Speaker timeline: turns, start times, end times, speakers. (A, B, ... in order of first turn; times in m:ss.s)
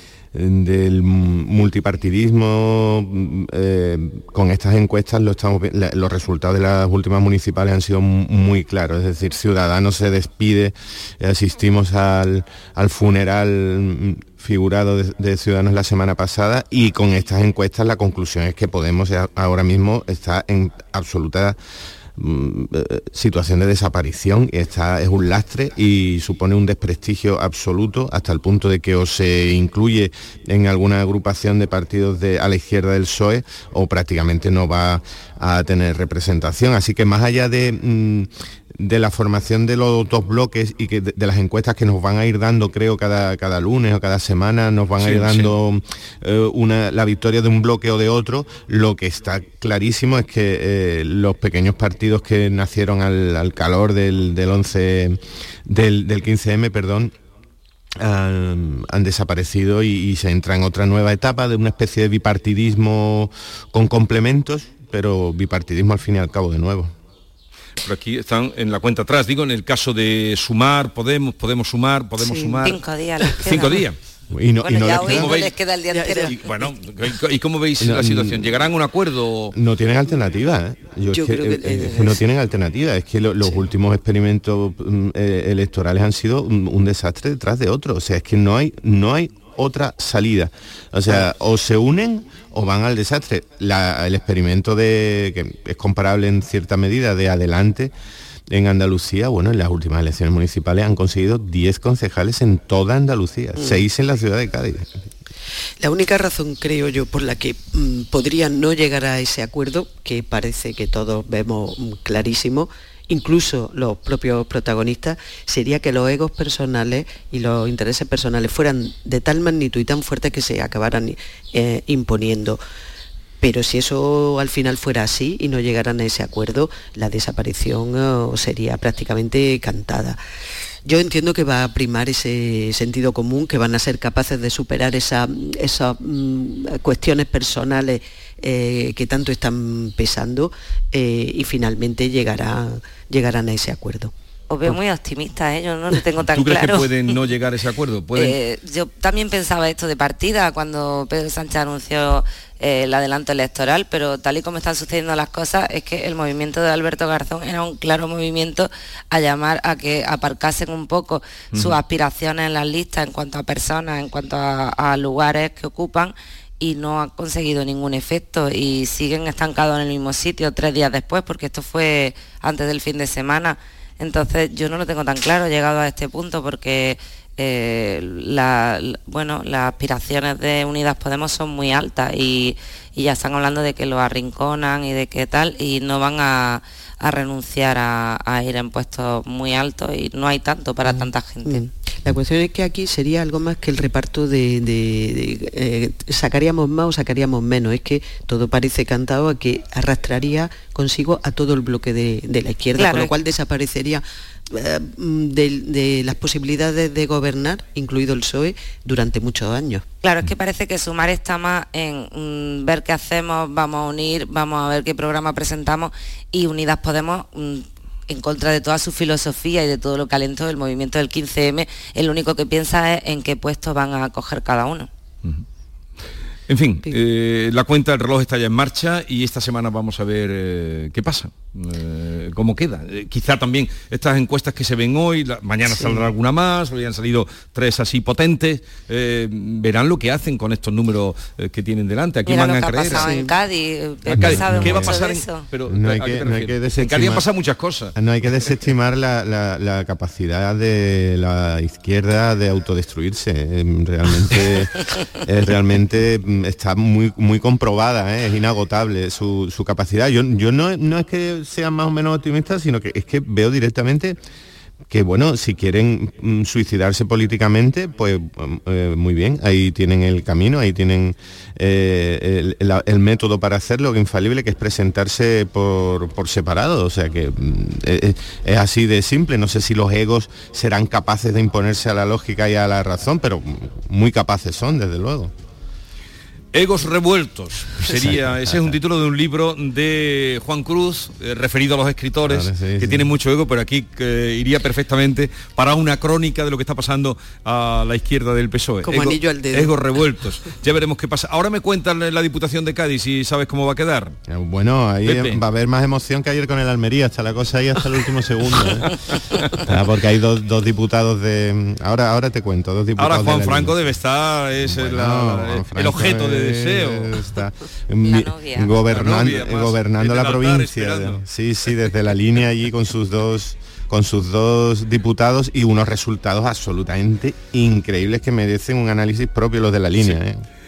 0:00.3-0:21.6 A
0:22.2-0:57.1 A
0:45.0-0:45.6 B
0:58.0-1:06.9 A
1:07.8-1:12.8 B
1:12.2-1:12.6 C
1:12.6-1:13.8 D
1:13.2-1:13.6 C
1:13.4-1:14.0 B
1:14.3-1:15.4 A
1:14.6-1:16.2 D
1:15.0-1:19.6 B
1:15.9-1:16.4 C
1:17.8-1:18.6 A
1:19.5-1:37.9 A
1:21.1-1:22.2 C
1:23.4-1:23.7 C
1:38.5-1:44.9 A
1:43.6-1:43.8 C
1:45.8-2:02.6 C
2:03.4-2:10.2 C
2:10.8-2:24.1 C
2:24.5-2:26.9 D
2:26.3-2:28.4 B
2:28.1-3:11.6 D
2:41.5-2:41.8 B
3:10.8-3:29.8 C
3:22.8-3:23.1 D
3:30.0-3:44.9 D
3:46.5-4:03.1 B
3:55.7-3:56.1 C
4:02.3-4:05.4 D
4:02.9-4:03.4 C
4:04.0-4:08.6 B
4:04.1-4:05.0 A
4:05.6-4:07.3 A
4:07.9-4:14.7 A
4:15.2-4:24.2 A
4:24.9-4:45.3 A
4:46.5-5:04.1 B
4:47.9-4:48.8 A
4:52.2-4:53.1 A
4:58.8-4:59.8 C
5:04.3-5:08.9 A
5:05.0-5:05.4 B
5:09.7-5:13.9 A
5:13.0-5:17.2 B
5:14.6-5:30.4 A
5:18.0-5:18.8 D
5:18.8-5:21.2 B